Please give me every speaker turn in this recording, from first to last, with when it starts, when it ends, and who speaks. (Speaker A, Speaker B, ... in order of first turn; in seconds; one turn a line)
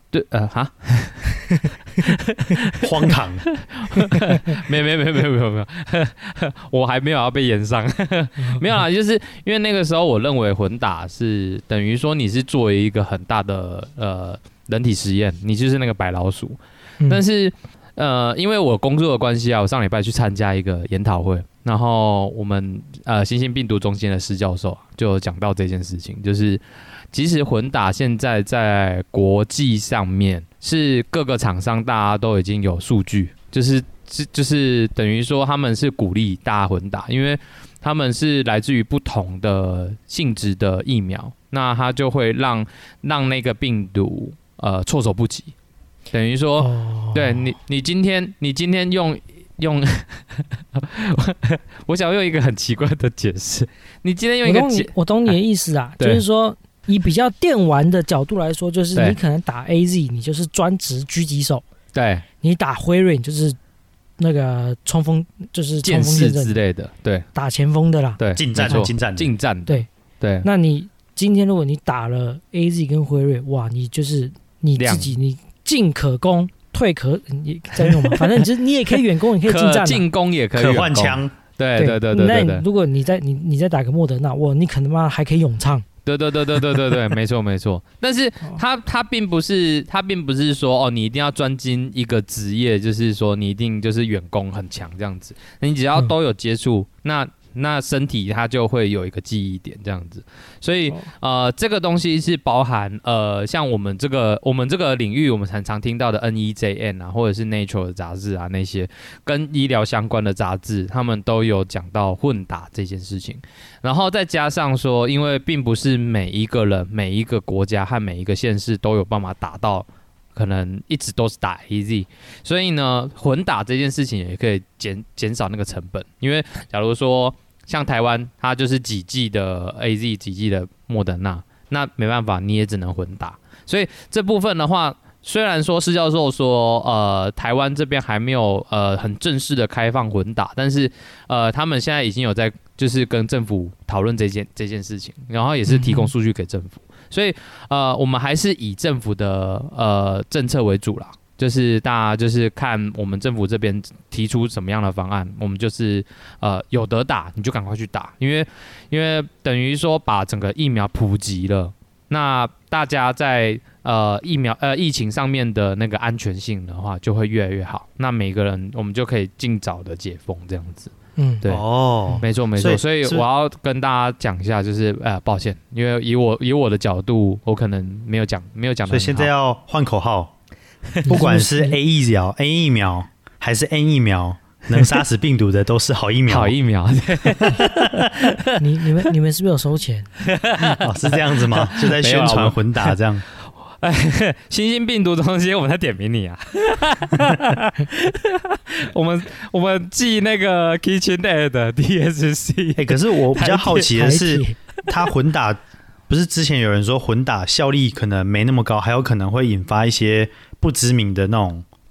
Speaker A: 0.1-1.3
Speaker A: 2.0-45.5
Speaker B: 2.8-3.5
Speaker C: 4.0-4.4
Speaker C: 8.4-8.7
Speaker A: 46.1-55.4
Speaker C: 46.6-47.6
Speaker C: 54.4-61.6
Speaker A: 61.9-62.2
Speaker C: 62.4-63.6
Speaker C: 64.2-66.6
Speaker A: 65.8-67.3
Speaker C: 67.3-68.9
Speaker A: 68.2-70.5
Speaker B: 68.4-69.3
Speaker C: 70.4-80.0
Speaker A: 74.8-75.2
Speaker A: 79.4-82.7
Speaker B: 80.6-81.3
Speaker C: 81.8-85.8
Speaker A: 86.1-171.6
Speaker C: 145.7-146.1
Speaker C: 171.2-171.4
Speaker B: 171.5-173.3
Speaker A: 172.2-179.3
Speaker B: 178.9-180.3
Speaker C: 181.1-181.8
Speaker B: 181.1-186.6
Speaker A: 186.3-188.6
Speaker B: 187.3-188.0
Speaker C: 188.6-190.1
Speaker A: 190.2-192.9
Speaker B: 190.7-193.2
Speaker A: 193.6-203.9
Speaker B: 202.8-211.7
Speaker C: 203.8-204.6